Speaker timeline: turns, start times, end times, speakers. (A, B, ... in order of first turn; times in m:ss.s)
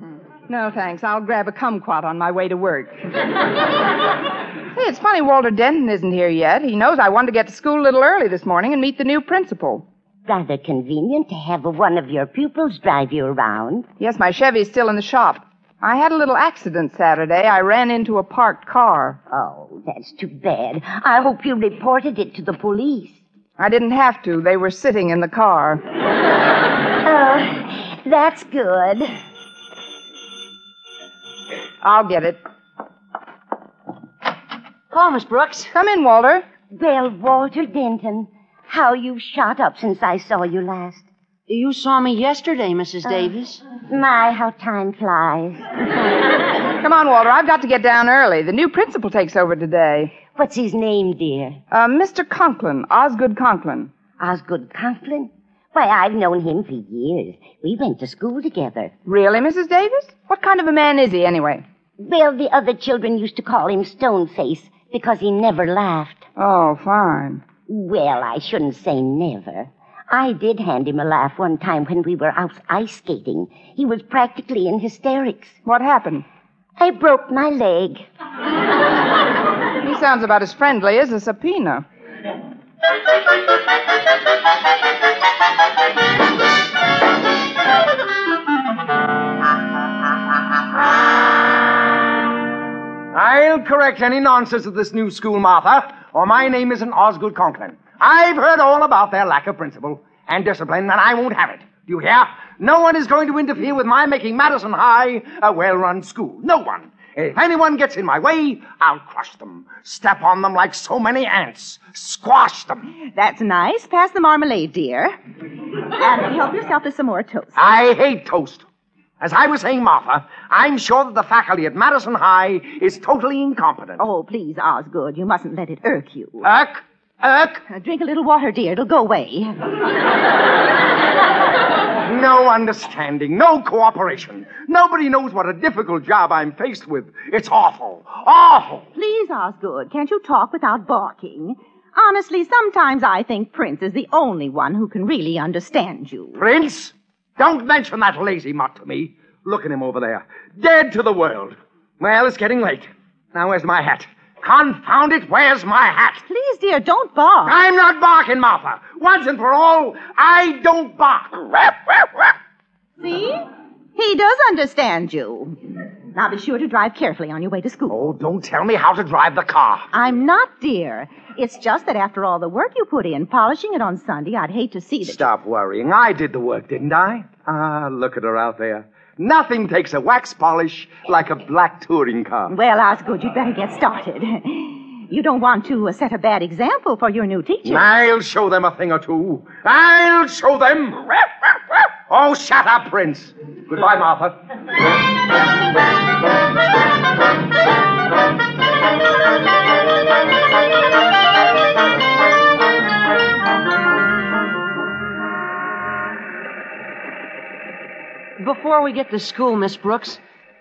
0:00.5-0:03.1 A
0:04.8-0:09.9 A
0:10.3-0:13.9 B
0:14.0-0:19.2 A
0:19.3-0:23.2 B
0:23.6-0:25.8 A
0:27.0-0:29.1 B
0:31.8-0:32.4 A
0:34.9-0:35.7 C
0:35.7-0:36.4 A
0:36.8-0:41.1 B
0:41.5-0:43.6 C
0:43.8-0:45.7 B
0:46.8-0:50.2 A
0:50.3-0:51.6 B
0:51.7-0:53.9 A
0:54.2-0:58.9 B
0:59.1-1:01.6 A
1:02.0-1:06.2 B
1:06.4-1:07.5 A
1:07.7-1:15.6 B
1:15.6-1:16.2 A
1:16.8-1:18.1 B
1:19.8-1:21.8 A
1:33.1-1:52.8 D
1:53.2-1:55.1 E
1:55.8-1:57.7 E
1:57.6-1:58.6 D
1:59.2-2:04.0 D
2:04.0-2:06.4 E
2:06.4-2:07.6 D
2:07.7-2:09.7 E
2:12.0-2:18.8 D
2:19.0-2:26.4 E
2:26.4-2:36.2 D
2:36.3-2:37.6 E
2:37.4-2:42.4 D
2:43.0-2:45.6 E
2:46.1-2:48.0 E
2:47.9-2:49.9 D
2:49.9-2:55.3 E
2:55.0-3:02.5 D
3:02.5-3:07.9 E
3:07.6-3:14.4 D
3:28.4-3:30.2 C